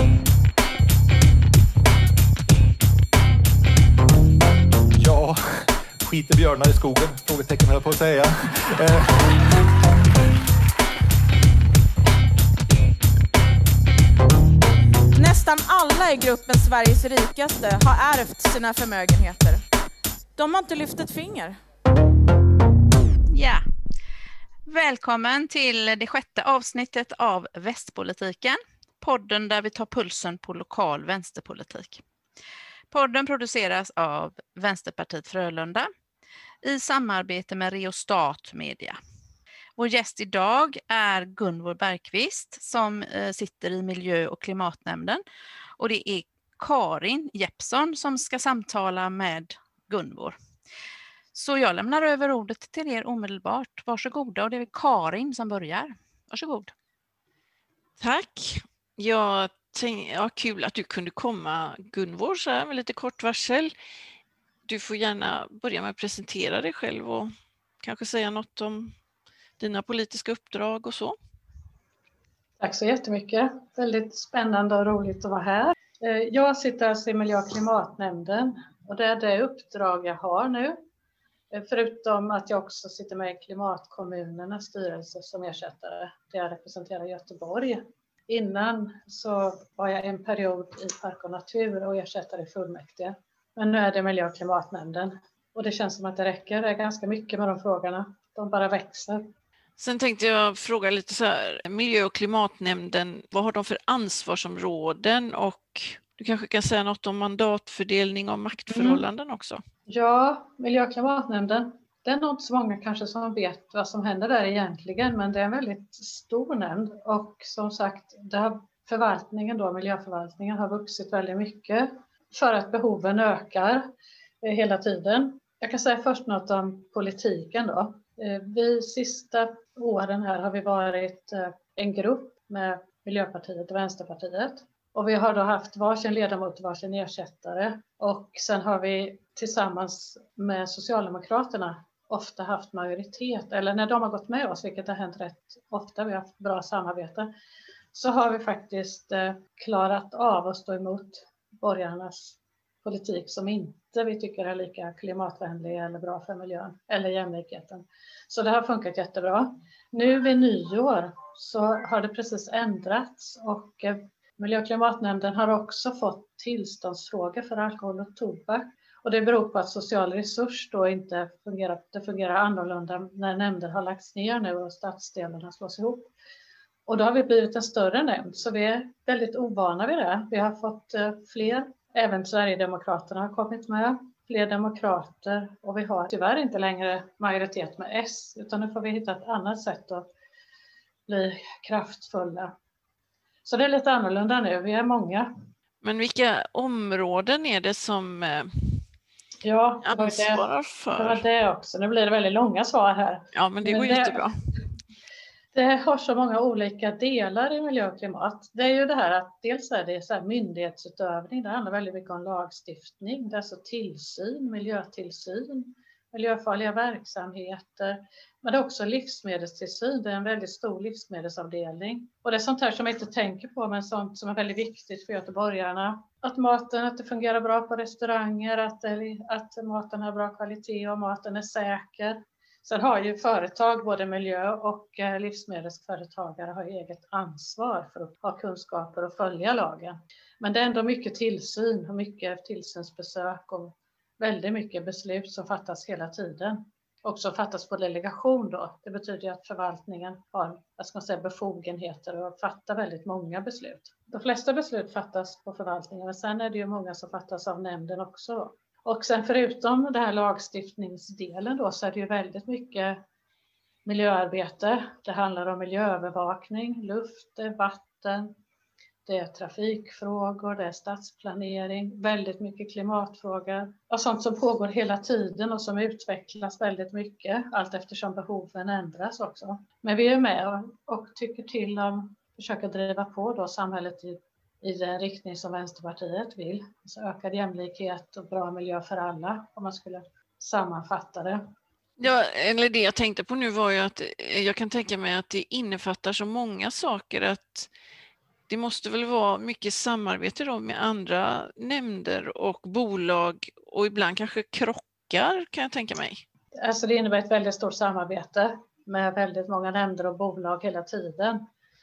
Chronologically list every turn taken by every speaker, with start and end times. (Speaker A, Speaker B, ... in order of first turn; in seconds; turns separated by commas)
Speaker A: 5.0-9.6, Speaker B: 15.1-19.6, Speaker B: 20.4-21.6, Speaker C: 23.3-23.6, Speaker C: 24.7-32.0, Speaker C: 32.9-35.9, Speaker C: 36.6-39.0, Speaker C: 39.8-45.2, Speaker C: 45.8-50.4, Speaker C: 51.3-56.7, Speaker D: 58.0-63.7, Speaker D: 64.7-67.3, Speaker D: 67.8-69.0, Speaker D: 69.6-71.2, Speaker E: 72.6-80.8, Speaker E: 81.5-99.2, Speaker D: 99.8-109.6, Speaker E: 108.7-109.0, Speaker E: 109.9-123.8, Speaker E: 124.4-147.3, Speaker E: 147.9-176.1, Speaker E: 176.9-190.1, Speaker E: 191.1-192.5, Speaker E: 193.4-195.3, Speaker D: 195.8-198.8, Speaker E: 199.4-200.4, Speaker D: 199.8-201.2, Speaker E: 201.0-204.2, Speaker D: 203.3-204.3, Speaker E: 205.5-263.0, Speaker E: 263.9-268.3, Speaker E: 269.1-291.4, Speaker D: 292.0-297.7, Speaker D: 298.5-306.2, Speaker E: 306.6-311.4